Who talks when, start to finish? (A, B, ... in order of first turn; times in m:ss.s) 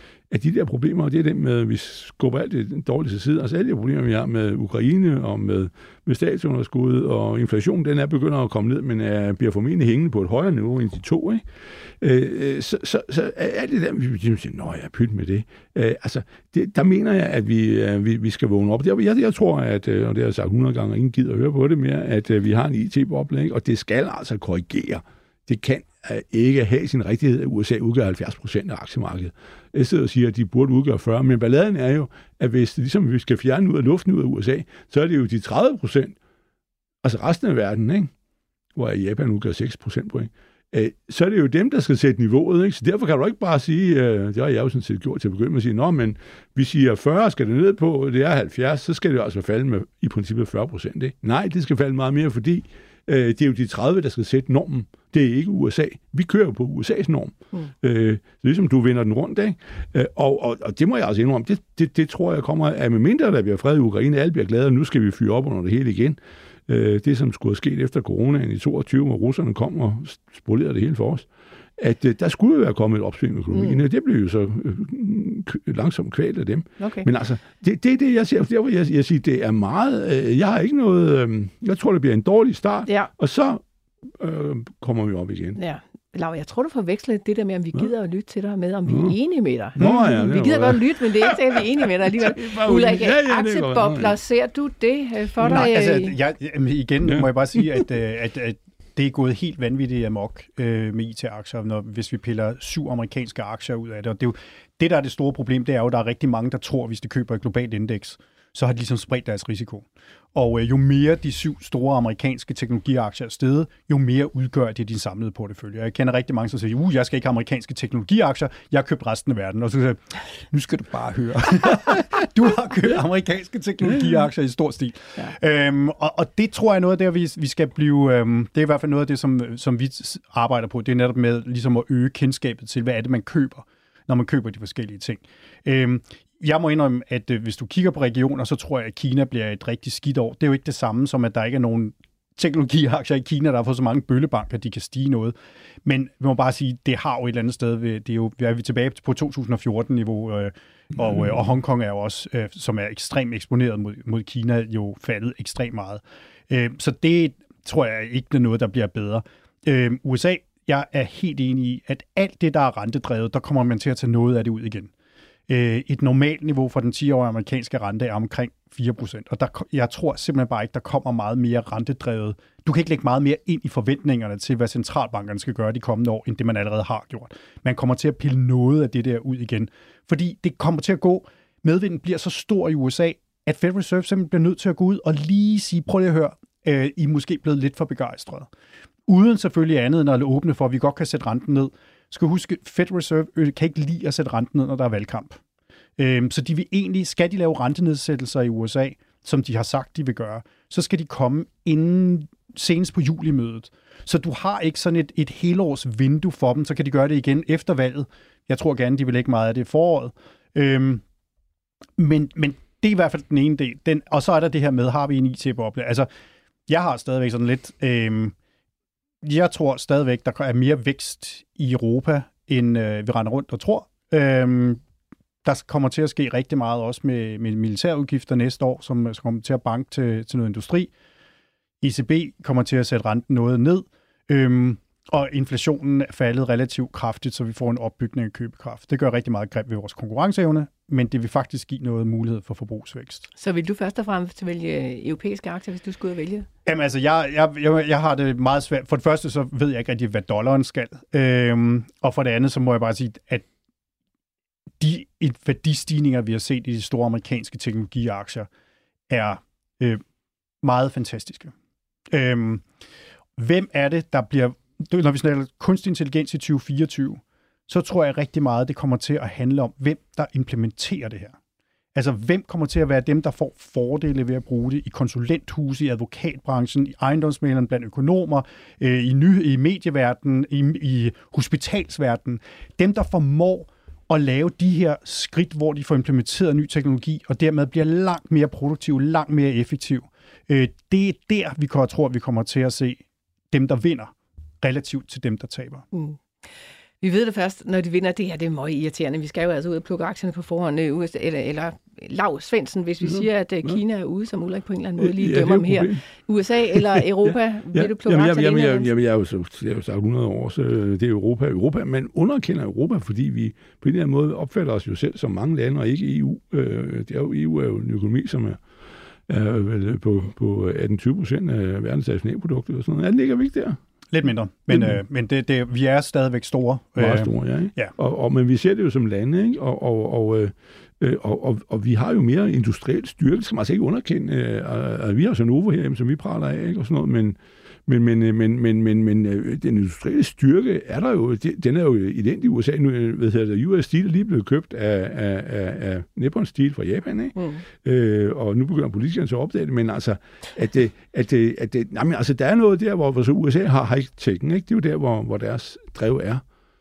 0:00.3-0:11.4 A
0:12.0-0:36.2 A
0:37.0-0:38.1 A
0:38.7-1:06.2 A
1:06.7-1:23.6 A
1:13.5-1:13.8 B
1:16.8-1:17.1 B
1:24.2-1:25.6 A
1:25.6-1:36.2 B
1:28.9-1:29.1 A
1:29.8-1:34.2 A
1:35.4-2:44.9 C
1:37.0-1:37.3 A
2:45.5-3:08.5 C
3:09.1-3:15.4 C
3:16.0-3:31.0 C
3:32.0-3:36.1 C
3:36.7-3:38.3 C
3:39.2-3:44.8 C
3:45.4-3:50.9 C
3:51.8-4:03.3 C
4:03.4-4:06.5 B
4:06.6-4:13.5 C
4:14.8-4:18.5 C
4:19.1-4:20.0 C
4:20.6-4:21.5 C
4:22.1-4:22.6 C
4:23.4-4:31.4 C
4:32.0-4:55.8 C
4:55.9-4:56.2 B
4:57.0-5:08.9 B
5:03.0-5:03.8 A
5:05.0-5:06.0 A
5:06.7-5:18.6 A
5:19.3-5:23.8 A
5:24.1-5:27.9 C
5:24.7-5:25.0 A
5:27.0-5:56.4 A
5:47.4-5:47.6 B